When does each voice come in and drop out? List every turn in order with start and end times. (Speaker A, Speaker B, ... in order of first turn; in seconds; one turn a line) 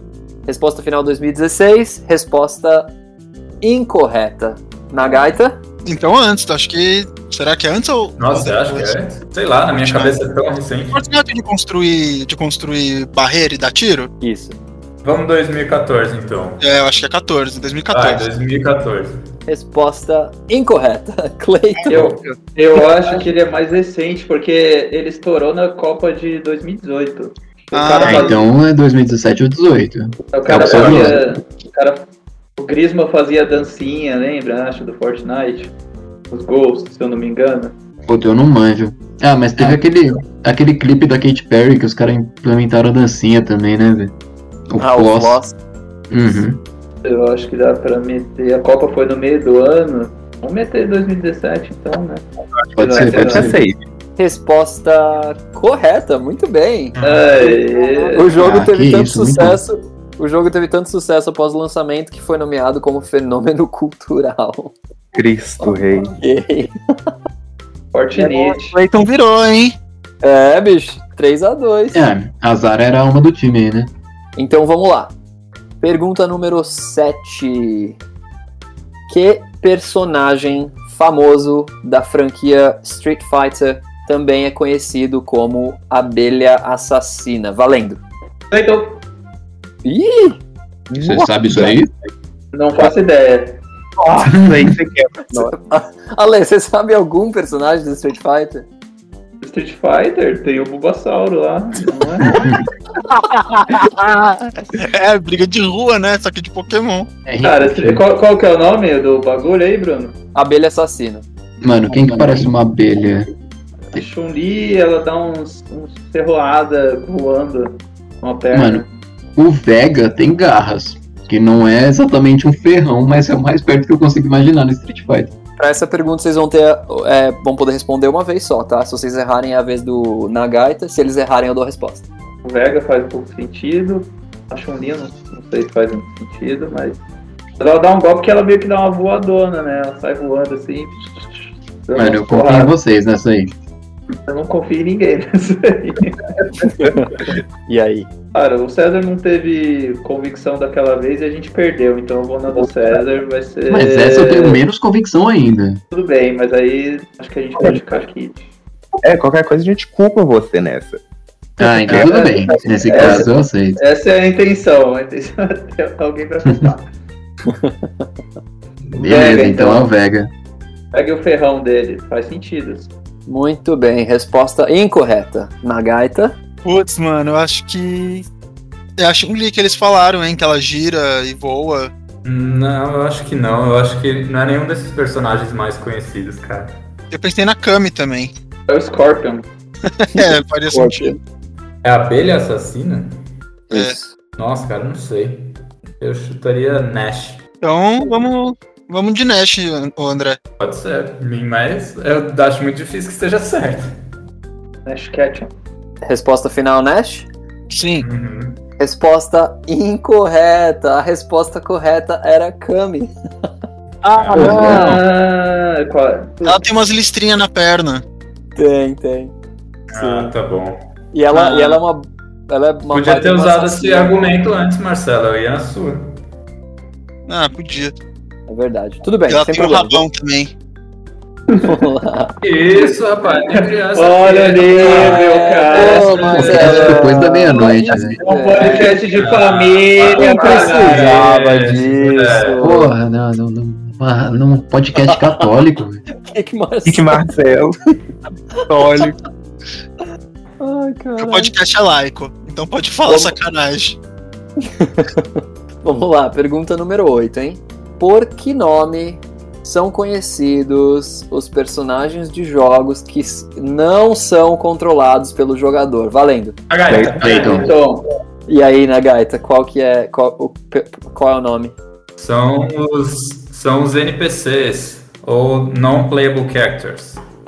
Speaker A: 0.5-2.9
Speaker A: 3.6-5.6
Speaker B: 5.8-8.9
Speaker C: 8.2-11.0
Speaker B: 9.7-10.2
Speaker B: 10.9-14.1
Speaker A: 14.2-14.6
Speaker C: 15.0-16.6
Speaker B: 16.6-18.2
Speaker C: 17.9-19.2
Speaker A: 19.5-22.0
Speaker B: 21.8-22.4
Speaker D: 21.9-28.4
Speaker B: 27.7-28.3
Speaker E: 28.0-31.2
Speaker D: 30.3-32.0
Speaker D: 32.6-35.7
Speaker D: 36.3-37.7
Speaker E: 38.1-44.1
Speaker E: 44.7-45.4
Speaker A: 44.8-45.5
Speaker E: 46.1-46.6
Speaker D: 47.0-52.2
Speaker E: 52.7-53.6
Speaker D: 52.8-53.5
Speaker F: 52.9-53.8
Speaker A: 54.2-57.0
Speaker C: 57.0-57.3
Speaker D: 57.0-58.3
Speaker A: 58.1-64.7
Speaker E: 58.4-59.6
Speaker F: 65.1-66.1
Speaker A: 65.6-66.7
Speaker D: 67.9-68.8
Speaker B: 68.5-69.8
Speaker A: 70.2-72.1
Speaker E: 71.9-73.9
Speaker A: 74.4-75.1
Speaker A: 75.8-78.0
Speaker A: 79.1-88.0
Speaker D: 88.5-89.0
Speaker A: 89.8-90.4
Speaker F: 90.9-91.8
Speaker E: 91.0-91.9
Speaker D: 92.5-93.6
Speaker F: 94.0-95.5
Speaker E: 94.3-94.7
Speaker A: 95.3-98.7
Speaker D: 99.4-102.4
Speaker E: 102.3-102.6
Speaker B: 103.0-107.1
Speaker E: 107.2-108.0
Speaker D: 107.4-110.1
Speaker A: 110.3-111.2
Speaker E: 111.6-113.3
Speaker D: 113.9-118.8
Speaker E: 118.5-118.8
Speaker E: 119.4-125.3
Speaker A: 125.6-132.0
Speaker D: 132.4-137.0
Speaker D: 137.6-142.7
Speaker E: 141.9-143.5
Speaker D: 144.2-146.4
Speaker A: 146.8-147.1
Speaker A: 147.7-148.1
Speaker D: 148.3-154.6
Speaker E: 153.7-155.8
Speaker D: 155.9-158.4
Speaker F: 159.0-161.0
Speaker E: 161.6-163.8
Speaker D: 161.9-166.9
Speaker E: 166.4-166.7
Speaker A: 167.5-168.0
Speaker D: 168.9-169.8
Speaker E: 168.9-170.3
Speaker D: 170.9-172.9
Speaker A: 173.3-176.3
Speaker B: 176.6-178.2
Speaker B: 179.0-181.9
Speaker C: 182.2-186.8
Speaker B: 187.1-188.3
Speaker D: 188.7-189.4
Speaker B: 189.9-191.1
Speaker A: 190.1-191.2
Speaker C: 191.8-193.2
Speaker A: 193.7-194.1
Speaker C: 194.4-197.4
Speaker B: 197.6-200.4
Speaker C: 200.6-203.9
Speaker D: 204.8-205.5
Speaker A: 206.0-207.3
Speaker B: 207.7-208.1
Speaker C: 208.0-208.6
Speaker A: 208.8-213.1
Speaker B: 214.0-214.9
Speaker C: 214.1-214.6
Speaker A: 214.3-215.0
Speaker E: 214.4-214.9
Speaker D: 214.4-216.6
Speaker B: 216.4-218.0
Speaker A: 218.6-219.3
Speaker C: 219.9-220.8
Speaker A: 219.9-220.3
Speaker A: 221.1-224.2
Speaker B: 221.3-221.8
Speaker C: 222.9-226.1
Speaker B: 227.3-227.9
Speaker A: 228.5-230.1
Speaker B: 229.3-230.5
Speaker D: 231.5-231.8
Speaker A: 231.6-232.3
Speaker C: 232.4-237.0
Speaker D: 233.2-236.8
Speaker A: 234.8-239.0
Speaker E: 236.3-238.2
Speaker D: 238.2-241.2
Speaker C: 238.6-242.6
Speaker A: 240.1-242.9
Speaker E: 242.6-246.0
Speaker A: 245.0-245.5
Speaker A: 246.3-247.2
Speaker F: 246.8-247.8
Speaker F: 248.7-249.0
Speaker B: 248.7-249.1
Speaker A: 250.6-251.5
Speaker B: 251.2-254.0
Speaker A: 253.1-253.3
Speaker A: 254.6-266.6
Speaker C: 266.7-267.7
Speaker F: 266.9-267.4
Speaker E: 267.2-267.7
Speaker D: 267.5-268.0
Speaker A: 268.5-271.7
Speaker C: 272.2-277.2